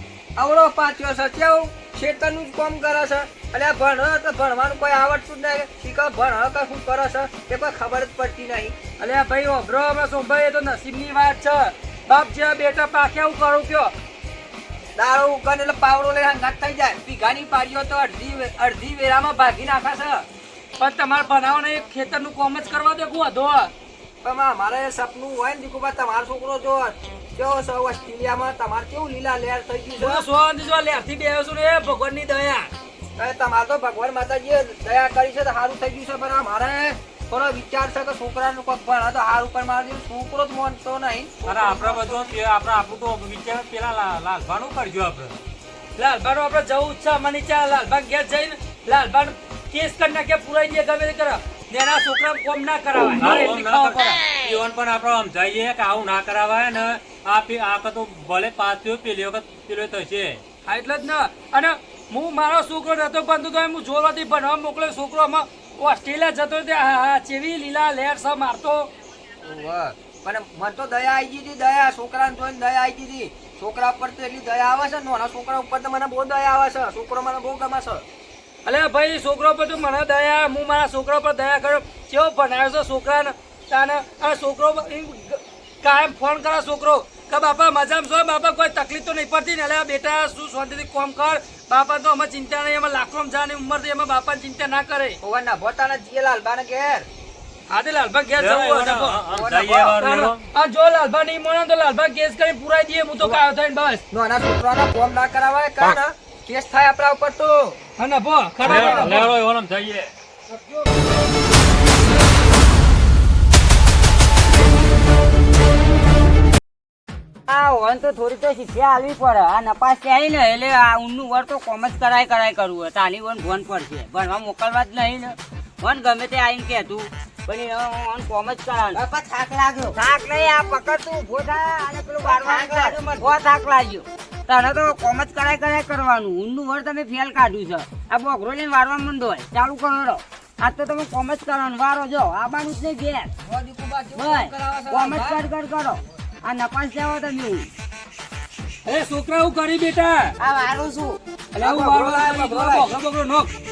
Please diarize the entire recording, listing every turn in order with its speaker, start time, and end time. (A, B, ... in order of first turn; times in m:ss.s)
0:00.4-0:08.8 A
0:09.0-0:13.9 B
0:15.0-0:20.2 A
0:20.8-0:23.7 B
0:24.2-0:30.2 A
0:30.0-0:32.7 B
0:33.2-0:42.3 A
0:41.4-0:45.4 C
0:46.0-0:54.3 B
0:53.2-1:00.4 C
1:00.6-1:08.9 B
1:09.4-1:18.0 A
1:18.6-1:35.2 B
1:35.2-1:37.0 A
1:37.7-1:39.2 B
1:38.4-1:40.4 C
1:39.3-1:40.0 A
1:40.0-1:44.0 B
1:44.1-1:47.8 A
1:48.0-1:49.3 B
1:48.6-1:50.1 C
1:48.7-1:49.2 A
1:57.5-2:09.0 D
2:08.9-2:10.0 E
2:09.9-2:23.3 D
2:12.2-2:13.3 E
2:23.4-2:25.4 A
2:24.2-2:27.7 D
2:28.8-2:30.3 B
2:30.5-2:31.1 D
2:30.5-2:31.1 E
2:31.5-2:33.5 B
2:31.6-2:32.9 A